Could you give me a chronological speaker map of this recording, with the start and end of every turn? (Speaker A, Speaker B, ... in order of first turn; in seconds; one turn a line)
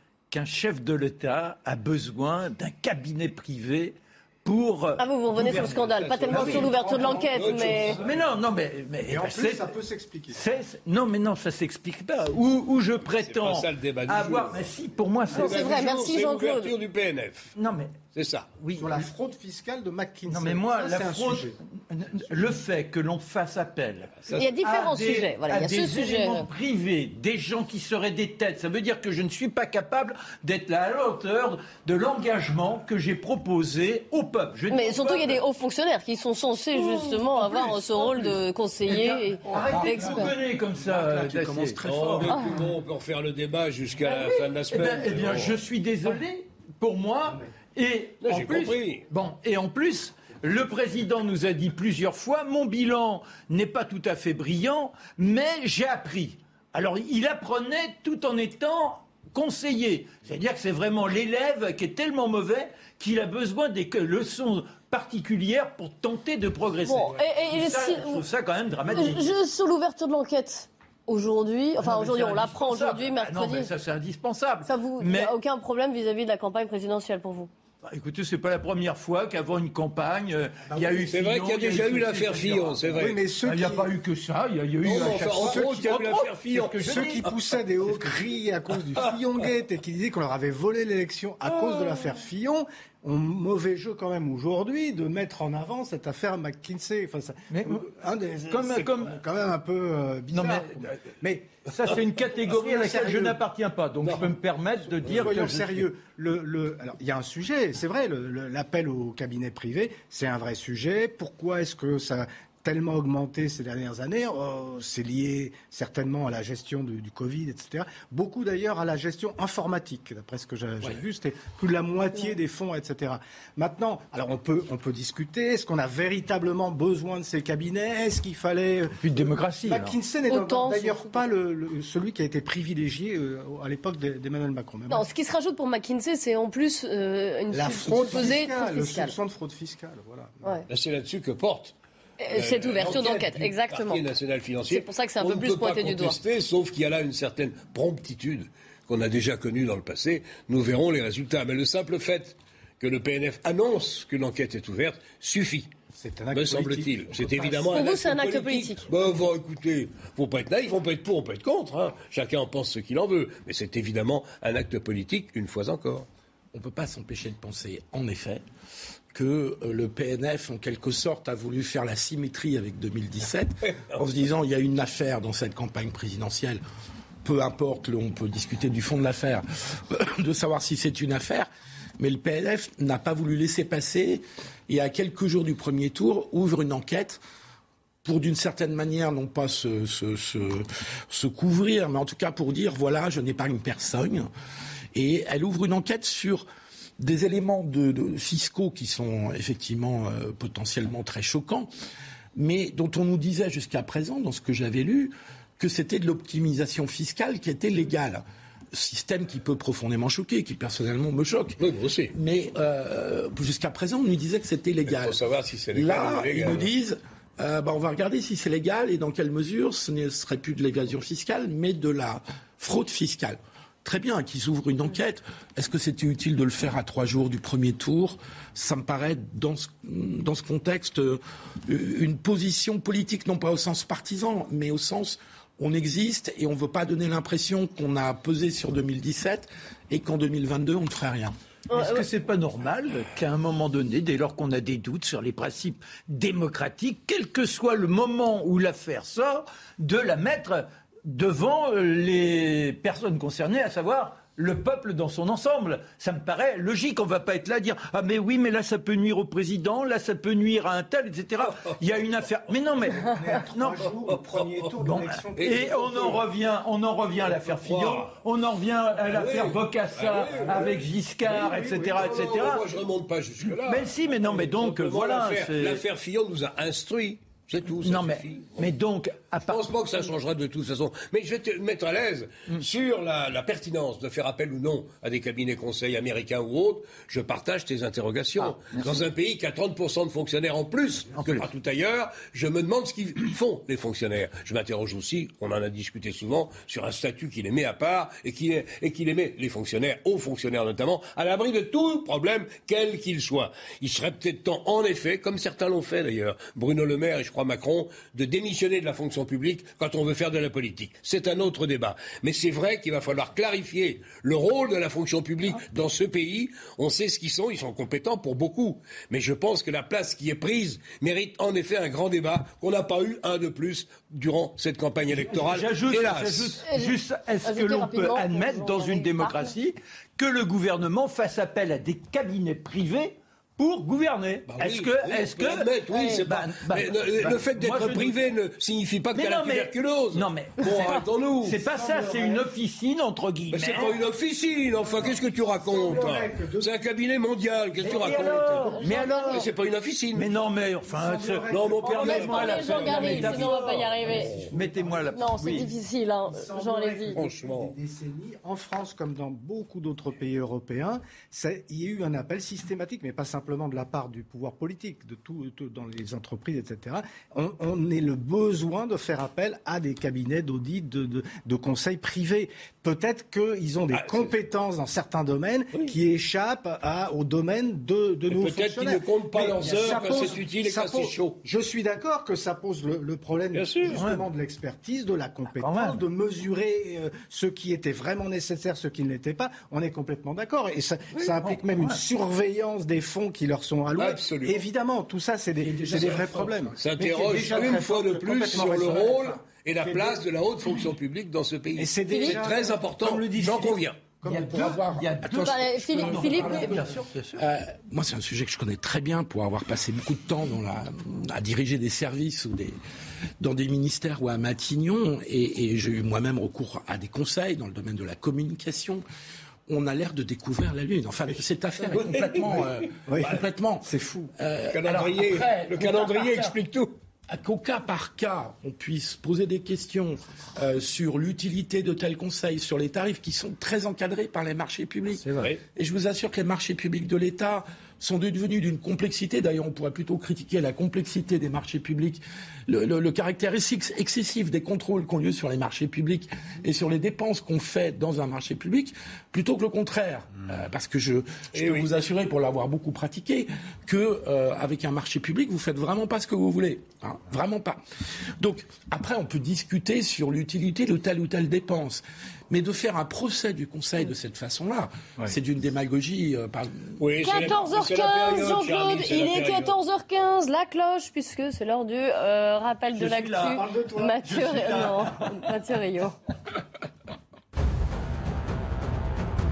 Speaker A: 0.3-5.0
Speaker B: 5.0-8.0
Speaker C: 5.4-5.7
Speaker D: 5.5-8.1
Speaker C: 6.2-8.2
Speaker A: 8.0-9.7
Speaker C: 9.1-10.4
Speaker A: 10.3-15.7
Speaker D: 13.2-14.7
Speaker D: 15.3-17.5
Speaker B: 15.3-16.7
Speaker A: 17.6-18.0
Speaker D: 18.1-18.5
Speaker A: 18.6-19.0
Speaker C: 18.8-21.6
Speaker A: 20.3-35.4
Speaker B: 24.3-26.5
Speaker B: 34.7-40.3
Speaker A: 36.8-41.8
Speaker E: 39.6-42.4
Speaker D: 41.8-45.6
Speaker A: 44.0-69.3
Speaker D: 48.2-49.1
Speaker B: 66.8-68.2
Speaker B: 68.9-73.7
Speaker A: 71.8-75.3
Speaker B: 74.7-77.5
Speaker A: 77.8-88.0
Speaker C: 80.7-81.0
Speaker D: 81.1-83.2
Speaker C: 82.9-83.9
Speaker D: 84.8-87.3
Speaker C: 85.2-86.1
Speaker C: 86.8-100.7
Speaker A: 97.5-97.8
Speaker A: 98.5-99.2
Speaker A: 100.3-100.9
Speaker C: 101.2-101.5
Speaker A: 101.7-105.9
Speaker C: 102.4-103.4
Speaker C: 105.0-129.0
Speaker A: 129.0-130.0
Speaker C: 129.6-135.1
Speaker B: 130.3-131.1
Speaker B: 134.9-139.2
Speaker C: 137.5-140.5
Speaker D: 140.7-141.7
Speaker B: 142.2-144.1
Speaker D: 142.3-155.7
Speaker B: 144.7-146.2
Speaker C: 155.9-157.7
Speaker D: 156.3-166.1
Speaker B: 157.7-158.9
Speaker E: 166.5-168.4
Speaker E: 169.1-176.6
Speaker E: 177.2-181.5
Speaker E: 182.0-187.2
Speaker E: 188.0-194.3
Speaker E: 194.9-196.4
Speaker E: 197.0-201.7
Speaker E: 202.4-211.6
Speaker D: 211.6-212.1
Speaker E: 212.1-215.2
Speaker D: 214.9-216.7
Speaker E: 215.7-241.3
Speaker B: 241.7-242.1
Speaker A: 241.7-263.9
Speaker C: 263.0-266.2
Speaker D: 264.1-264.7
Speaker A: 264.8-272.6
Speaker D: 265.4-266.2
Speaker D: 267.2-268.1
Speaker D: 269.1-278.6
Speaker C: 270.4-270.7
Speaker C: 271.4-272.3
Speaker A: 273.6-275.8
Speaker A: 277.8-279.8
Speaker D: 279.5-326.6
Speaker A: 288.4-289.0
Speaker A: 291.1-291.5
Speaker A: 325.1-338.2
Speaker B: 326.7-329.5
Speaker D: 334.5-341.6
Speaker A: 339.1-344.0
Speaker C: 341.7-342.4
Speaker D: 343.5-350.3
Speaker C: 344.8-346.7
Speaker A: 347.8-349.5
Speaker C: 347.8-349.1
Speaker A: 350.1-353.9
Speaker C: 350.8-353.4
Speaker D: 351.5-354.5
Speaker B: 352.0-354.3
Speaker C: 354.2-355.4
Speaker A: 354.5-355.7
Speaker B: 355.1-357.2
Speaker C: 356.3-400.2
Speaker D: 357.1-357.7
Speaker D: 373.9-374.3
Speaker D: 378.3-381.4
Speaker D: 383.5-384.0
Speaker A: 383.9-384.3
Speaker A: 385.6-386.0
Speaker A: 391.2-392.0
Speaker D: 394.0-394.6
Speaker E: 395.6-396.7
Speaker D: 396.8-404.0
Speaker A: 397.2-397.7
Speaker C: 401.8-405.1
Speaker A: 403.2-407.4
Speaker E: 404.4-412.8
Speaker B: 405.5-406.8
Speaker C: 406.4-406.8
Speaker E: 413.4-419.0
Speaker E: 419.7-425.4
Speaker D: 421.9-422.7
Speaker C: 423.1-424.3
Speaker D: 424.7-426.9
Speaker A: 425.4-426.4
Speaker E: 427.3-457.8
Speaker D: 451.5-451.9
Speaker E: 458.4-467.0
Speaker D: 467.0-469.8
Speaker B: 467.2-476.1
Speaker A: 472.9-473.6
Speaker C: 473.5-474.7
Speaker A: 474.2-475.1